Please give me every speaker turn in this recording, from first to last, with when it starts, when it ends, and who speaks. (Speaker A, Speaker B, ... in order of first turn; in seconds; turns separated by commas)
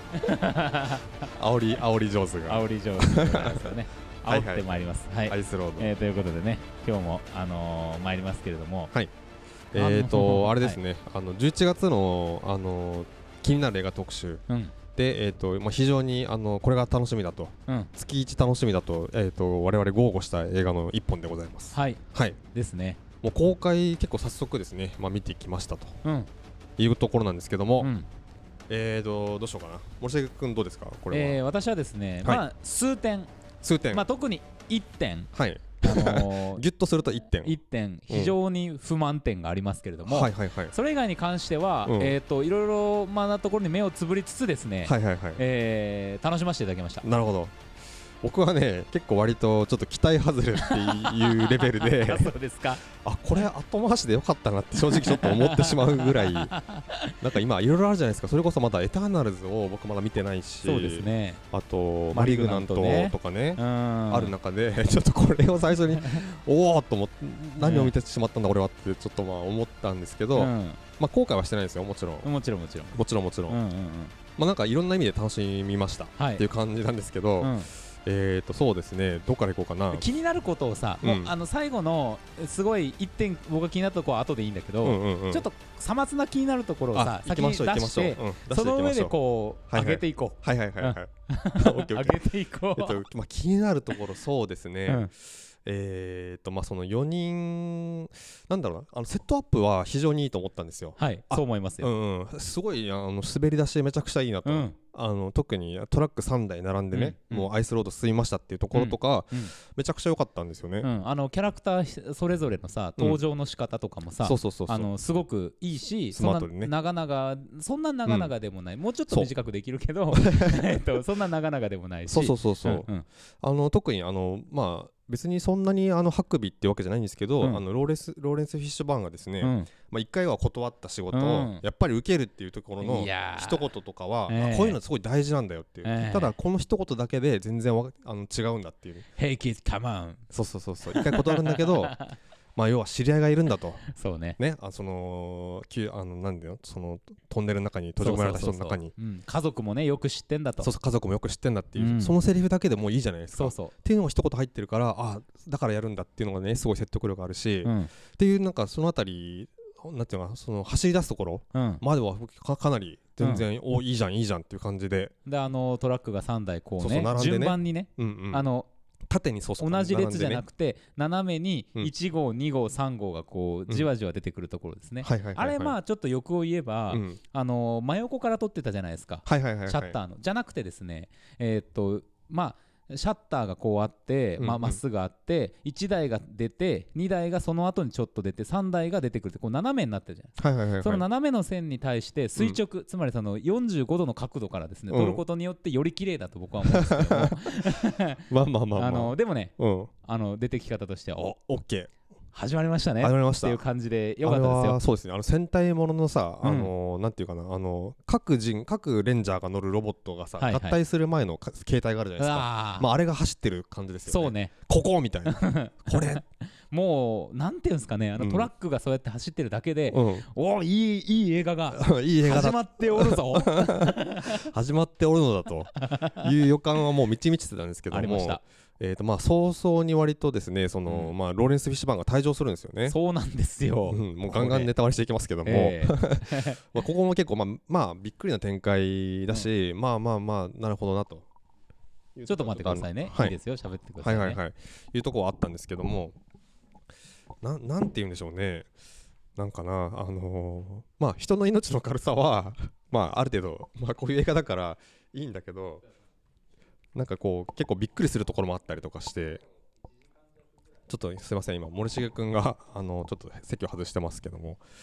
Speaker A: 0.1-1.2, Speaker B: 1.4-3.7, Speaker A: 2.5-8.9, Speaker B: 4.3-5.9, Speaker B: 9.7-22.4, Speaker A: 9.8-10.8, Speaker A: 14.5-14.7, Speaker A: 21.7-22.0, Speaker A: 22.5-23.0, Speaker B: 23.2-26.0, Speaker A: 26.0-26.3, Speaker B: 26.8-27.9, Speaker A: 27.8-28.1, Speaker B: 28.7-31.4, Speaker A: 31.1-33.3, Speaker B: 33.6-34.0, Speaker A: 33.9-36.6, Speaker B: 35.3-37.6, Speaker A: 37.4-47.1, Speaker B: 38.1-38.4, Speaker B: 40.1-40.7, Speaker B: 41.9-42.2, Speaker B: 44.9-45.4, Speaker B: 47.0-47.5, Speaker B: 48.2-52.4, Speaker A: 50.6-52.9, Speaker B: 52.9-56.5, Speaker A: 54.9-57.2, Speaker B: 57.2-72.3, Speaker A: 60.6-61.4, Speaker A: 62.1-64.3, Speaker A: 67.6-67.9, Speaker A: 70.3-70.8, Speaker A: 72.2-73.0, Speaker B: 72.9-73.6, Speaker A: 73.5-74.2, Speaker B: 74.4-80.0, Speaker A: 76.2-76.5, Speaker A: 77.4-77.7, Speaker A: 79.9-93.0, Speaker B: 81.0-81.3, Speaker B: 84.8-85.5, Speaker B: 86.9-89.2, Speaker B: 89.7-92.2, Speaker B: 92.8-110.9, Speaker A: 101.0-101.9, Speaker A: 104.5-104.8, Speaker A: 106.9-107.5, Speaker A: 108.7-109.5, Speaker A: 110.8-123.0, Speaker B: 114.2-114.9, Speaker B: 116.1-116.7, Speaker B: 118.1-118.3, Speaker B: 120.1-120.8, Speaker B: 122.1-122.9, Speaker B: 123.4-139.1, Speaker A: 129.4-129.7, Speaker A: 131.1-131.6, Speaker A: 132.8-133.7, Speaker A: 134.3-134.8, Speaker A: 135.8-136.3, Speaker A: 139.2-140.3, Speaker B: 140.3-142.0, Speaker A: 140.9-142.2, Speaker B: 142.6-143.9, Speaker A: 143.9-144.4, Speaker B: 144.4-148.9, Speaker A: 148.0-150.7, Speaker B: 150.6-165.1, Speaker A: 151.8-152.2, Speaker A: 153.3-153.7, Speaker A: 157.6-157.9, Speaker A: 161.5-161.8, Speaker A: 163.2-163.5, Speaker A: 165.3-168.7, Speaker B: 166.8-168.4, Speaker B: 169.1-170.4, Speaker A: 169.6-198.2, Speaker B: 175.0-175.8, Speaker B: 176.9-177.2, Speaker B: 179.3-180.0, Speaker B: 184.4-184.8, Speaker B: 190.4-191.1, Speaker B: 194.9-195.2, Speaker B: 196.7-199.9, Speaker A: 198.8-201.3, Speaker B: 201.2-201.9, Speaker A: 202.3-204.8, Speaker B: 203.0-203.6, Speaker B: 204.2-216.2, Speaker A: 206.4-206.7, Speaker A: 210.4-210.8, Speaker A: 212.2-212.9, Speaker A: 214.1-214.5, Speaker A: 215.3-224.4, Speaker B: 218.2-218.5, Speaker B: 219.9-220.3, Speaker B: 221.7-233.0, Speaker A: 225.8-226.3, Speaker A: 227.9-228.4, Speaker A: 230.9-231.1, Speaker A: 232.9-234.7, Speaker B: 233.9-241.3, Speaker A: 235.4-236.6, Speaker B: 242.2-243.3, Speaker A: 242.3-244.4, Speaker B: 244.0-246.2, Speaker B: 247.4-248.7, Speaker B: 249.4-255.8, Speaker B: 256.9-259.4, Speaker B: 260.9-264.6